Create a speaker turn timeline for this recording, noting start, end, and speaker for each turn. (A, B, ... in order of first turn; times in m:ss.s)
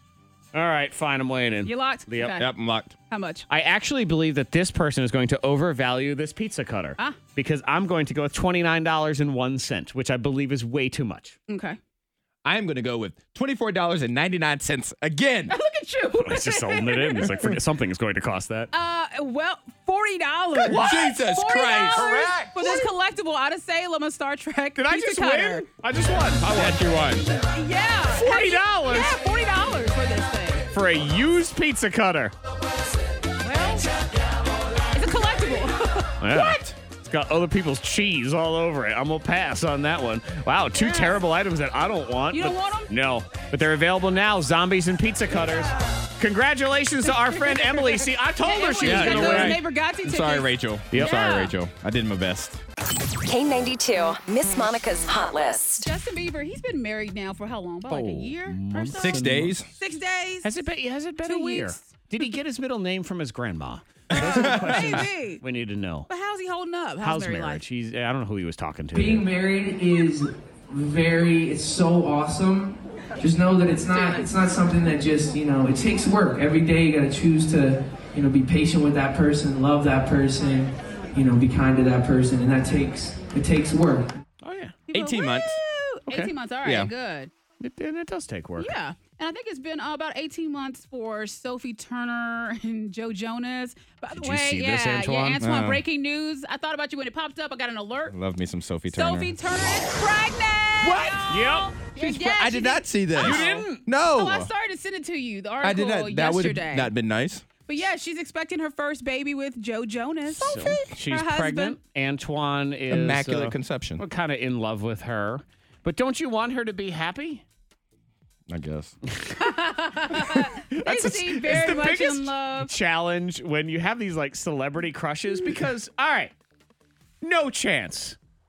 0:00.5-0:02.4 A
0:01.6-0:02.5 B
0:02.3-0:03.0 C
0:03.1-0:03.4 B
0:03.5-0:11.4 A
0:11.5-0:11.8 B
0:12.4-0:15.5 C
0:15.5-0:17.4 B
0:16.2-0:18.7 A
0:18.7-0:25.6 B
0:20.6-0:22.8 C
0:20.7-0:21.0 A
0:21.9-0:22.5 A
0:24.8-0:26.8 A
0:26.4-0:27.2 C
0:27.4-0:30.6 B
0:28.1-0:29.2 A
0:30.7-0:32.3 A
0:33.4-0:33.9 B
0:34.9-0:36.6 B
0:36.2-0:49.6 A
0:40.8-0:41.2 B
0:42.3-0:42.9 B
0:47.0-0:51.5 B
0:48.8-0:52.6 C
0:53.2-0:55.9 D
0:55.8-1:00.5 B
0:57.9-0:58.3 C
0:58.4-0:59.5 A
0:59.0-0:59.7 C
1:00.4-1:06.1 A
1:01.2-1:01.9 B
1:04.1-1:05.0 C
1:04.1-1:05.4 B
1:06.1-1:07.6 B
1:07.0-1:09.2 A
1:08.9-1:24.1 E
1:13.9-1:14.3 B
1:24.4-1:24.8 A
1:24.9-1:27.3 B
1:24.9-1:25.6 C
1:26.6-1:26.9 C
1:27.6-1:28.7 A
1:28.6-1:38.1 B
1:34.1-1:35.4 A
1:35.4-1:35.8 C
1:38.1-1:39.4 C
1:38.9-1:46.9 B
1:40.8-1:41.4 C
1:41.3-1:41.7 A
1:41.9-1:44.5 C
1:43.2-1:43.8 A
1:45.6-1:47.4 C
1:47.7-1:51.8 B
1:50.4-1:50.8 C
1:50.4-1:57.4 A
1:52.9-1:54.0 C
1:58.5-1:58.9 C
1:59.1-1:59.3 A
1:59.4-2:02.7 B
2:00.7-2:06.3 A
2:07.2-2:08.2 A